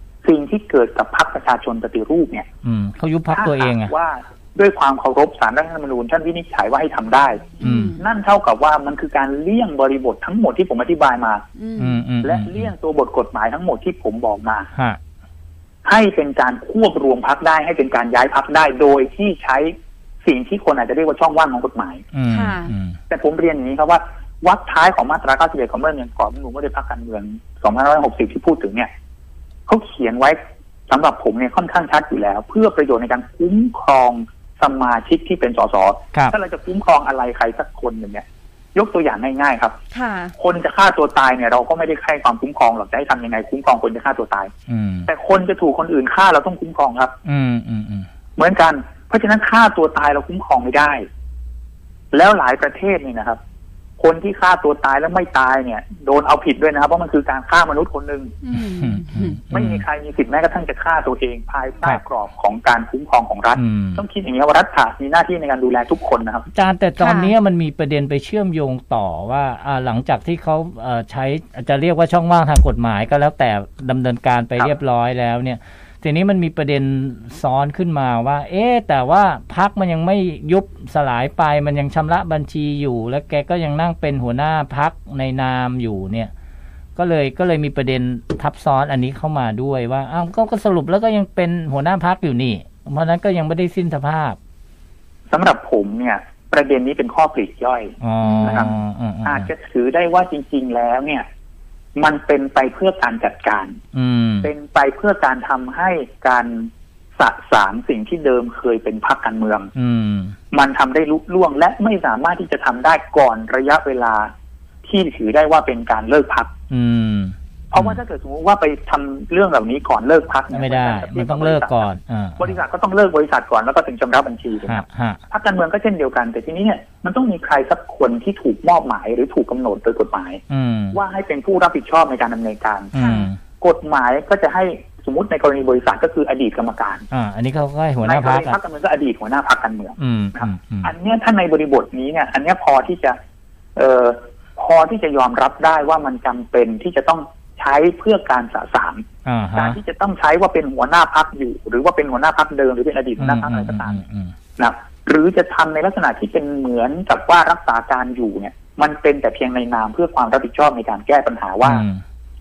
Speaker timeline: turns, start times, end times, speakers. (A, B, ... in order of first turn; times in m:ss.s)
0:00.2-0:02.5 A
0:02.6-0:03.9 B
0:03.3-0:11.4 A
0:07.6-0:08.0 B
0:07.6-0:08.0 C
0:11.6-0:12.0 C
0:11.8-0:12.7 B
0:12.2-0:14.7 A
0:15.8-0:22.0 A
0:22.1-0:23.0 B
0:22.3-0:22.7 C
0:23.1-0:28.9 A
0:29.7-0:39.8 A
0:39.9-0:40.3 C
0:40.4-0:44.5 A
0:44.7-0:45.1 B
0:45.1-0:47.1 A
0:47.2-0:48.1 B
0:48.4-0:51.0 A
0:52.1-0:53.4 A
0:54.0-0:58.4 A
0:58.4-0:59.4 C
0:58.5-0:59.8 B
0:59.5-1:06.5 A
1:03.6-1:04.0 B
1:06.5-1:26.3 B
1:07.0-1:07.3 C
1:27.0-1:34.4 B
1:35.3-1:38.7 A
1:38.0-1:39.5 B
1:38.2-1:38.6 C
1:39.2-1:41.2 A
1:42.0-1:43.8 A
1:43.9-1:44.5 B
1:44.4-1:49.7 A
1:49.7-1:50.4 B
1:50.5-1:54.3 A
1:54.8-1:56.5 A
1:56.7-1:58.0 B
1:57.7-2:10.4 A
2:00.5-2:02.6 B
2:04.6-2:05.2 B
2:10.5-2:11.0 B
2:10.9-2:12.9 A
2:12.9-2:13.4 B
2:12.9-2:13.3 C
2:13.6-2:17.1 A
2:17.1-2:18.6 B
2:18.0-2:23.2 A
2:20.0-2:20.9 B
2:23.8-2:34.0 A
2:29.2-2:29.8 B
2:33.2-2:34.3 B
2:34.6-2:41.8 A
2:41.6-2:42.0 B